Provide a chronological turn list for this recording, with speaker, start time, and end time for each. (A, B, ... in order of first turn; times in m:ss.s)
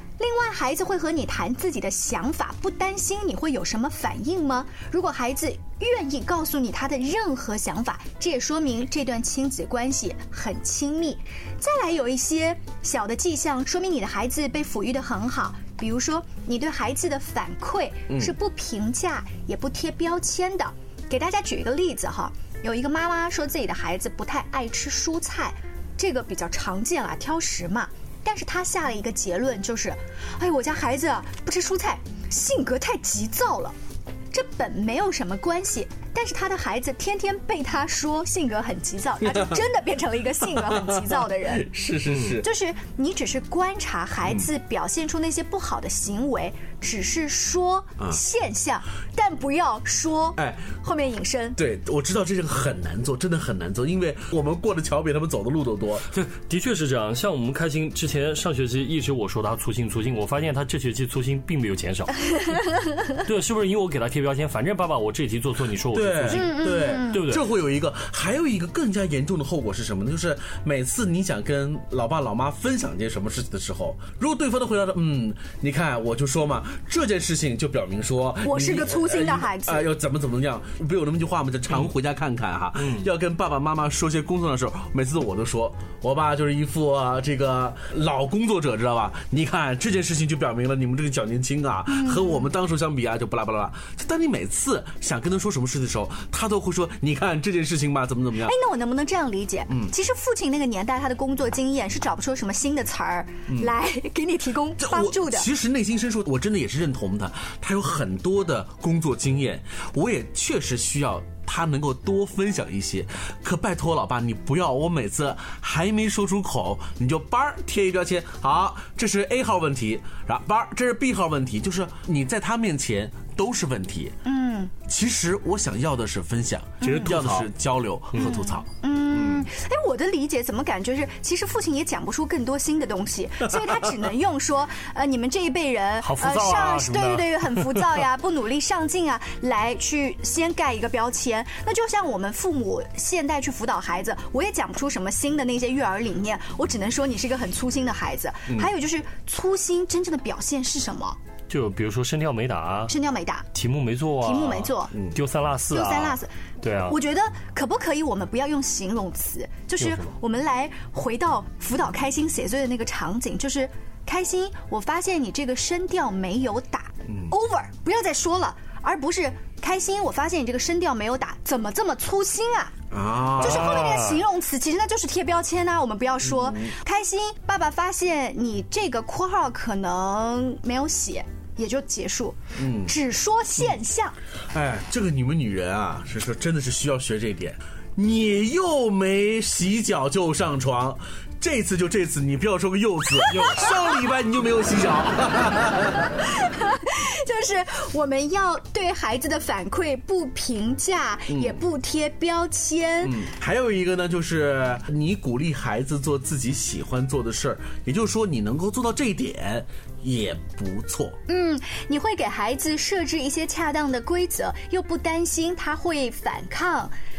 0:00.2-0:33.8 A
0:18.1-0:18.4 B
0:34.3-0:41.7 A
0:39.2-0:39.6 B
0:40.4-0:42.5 B
0:42.1-0:42.4 C
0:42.4-0:51.6 A
0:50.4-0:50.7 B
0:51.6-0:56.1 B
0:56.1-1:02.6 C
1:03.2-1:07.5 C
1:05.9-1:38.6 B
1:06.3-1:07.2 A
1:18.4-1:19.9 A
1:22.8-1:23.0 C
1:31.9-1:32.4 A
1:38.4-1:45.5 A
1:44.8-2:04.2 B
2:04.2-2:04.7 A
2:04.8-2:09.4 B
2:06.8-2:07.1 A
2:06.8-2:07.5 C
2:08.2-2:31.2 A
2:16.0-2:18.0 C
2:31.5-2:32.9 C
2:32.9-2:33.5 A
2:33.5-2:37.0 C
2:34.2-2:35.0 A
2:35.7-2:36.3 A
2:36.8-2:52.8 A
2:39.8-2:40.1 C
2:47.1-2:47.4 B
2:52.9-2:53.8 B
2:53.4-2:54.2 C
2:53.4-3:04.2 A
2:56.2-2:56.8 B
3:02.6-3:03.0 B
3:04.5-3:16.2 B
3:13.3-3:13.6 C
3:16.2-3:23.2 A
3:21.3-3:21.6 B
3:23.0-3:31.2 B
3:31.3-3:36.9 A